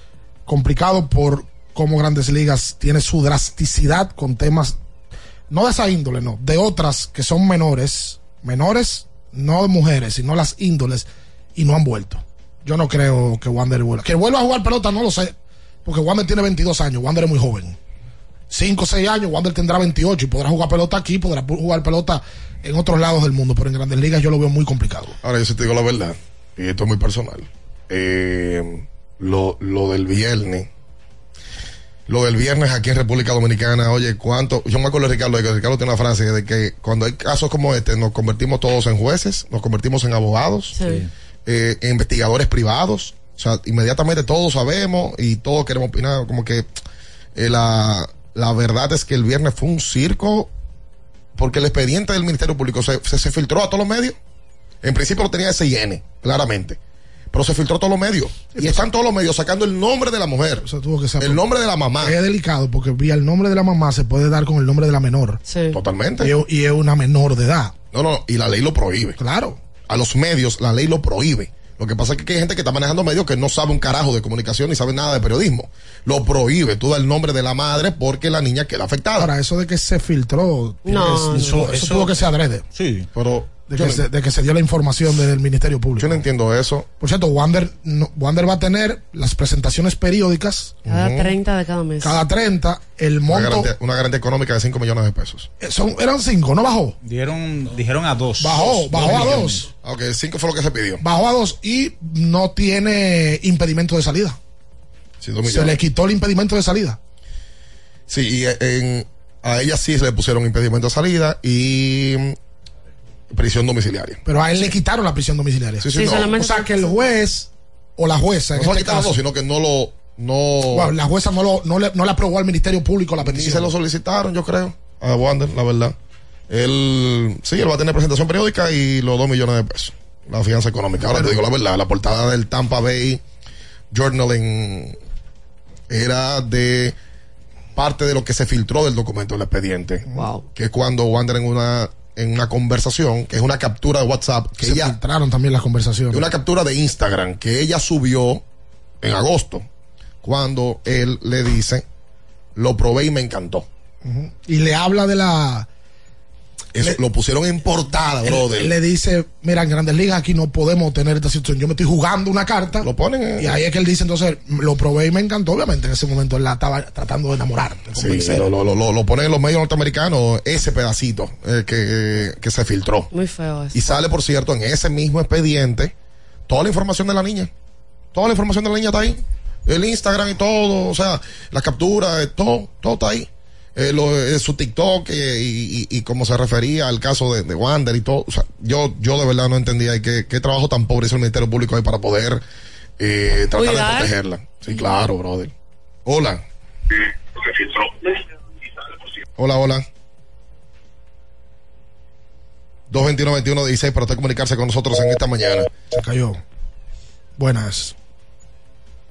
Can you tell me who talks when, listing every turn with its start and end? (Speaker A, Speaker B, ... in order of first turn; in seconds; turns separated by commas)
Speaker A: 0.5-4.8, Speaker A: 5.5-17.8, Speaker A: 18.5-25.1, Speaker B: 25.2-30.7, Speaker B: 32.1-40.8, Speaker C: 40.7-41.0, Speaker D: 40.8-41.1, Speaker B: 41.5-46.7, Speaker B: 47.4-50.5, Speaker B: 51.4-54.1, Speaker B: 54.8-56.8, Speaker B: 57.3-60.6, Speaker A: 58.5-58.9, Speaker A: 60.6-61.4, Speaker B: 61.2-62.2, Speaker A: 62.0-65.4, Speaker C: 65.5-65.8, Speaker B: 65.7-66.3, Speaker A: 66.2-67.8, Speaker B: 67.9-69.2, Speaker A: 69.2-69.6, Speaker B: 69.8-79.3, Speaker A: 79.1-82.6, Speaker C: 80.8-81.7, Speaker D: 81.3-83.1, Speaker B: 83.1-84.0, Speaker A: 83.7-86.2, Speaker B: 86.0-86.9, Speaker A: 87.0-90.8, Speaker B: 90.8-91.3, Speaker C: 90.9-92.2, Speaker A: 92.0-93.7, Speaker B: 93.3-95.5, Speaker A: 95.6-97.0, Speaker D: 97.0-99.7, Speaker A: 98.4-99.7, Speaker B: 99.1-101.0, Speaker A: 101.0-104.4, Speaker B: 105.2-105.8, Speaker A: 105.4-107.0, Speaker B: 108.1-112.3, Speaker B: 113.3-114.7, Speaker A: 114.2-119.2, Speaker B: 115.8-116.4, Speaker C: 115.9-116.9, Speaker B: 118.5-120.9, Speaker A: 120.7-123.7, Speaker B: 123.2-125.9, Speaker B: 126.5-133.2, Speaker A: 131.0-131.4, Speaker B: 133.9-134.9, Speaker B: 135.9-136.9, Speaker B: 137.8-145.0, Speaker C: 140.1-140.4, Speaker A: 144.6-146.3, Speaker B: 146.1-148.4, Speaker B: 149.0-149.6, Speaker B: 150.2-151.8, Speaker B: 152.6-153.7, Speaker A: 154.0-155.7, Speaker B: 156.7-158.7, Speaker A: 158.2-168.5, Speaker B: 162.8-163.6, Speaker B: 167.9-173.1, Speaker C: 173.1-174.0, Speaker B: 173.7-175.9, Speaker B: 176.5-177.5, Speaker B: 178.1-192.4, Speaker B: 193.0-195.5, Speaker C: 193.5-194.1, Speaker B: 196.1-196.4, Speaker B: 199.4-199.8, Speaker B: 202.9-205.7, Speaker A: 205.9-206.4, Speaker A: 207.4-207.9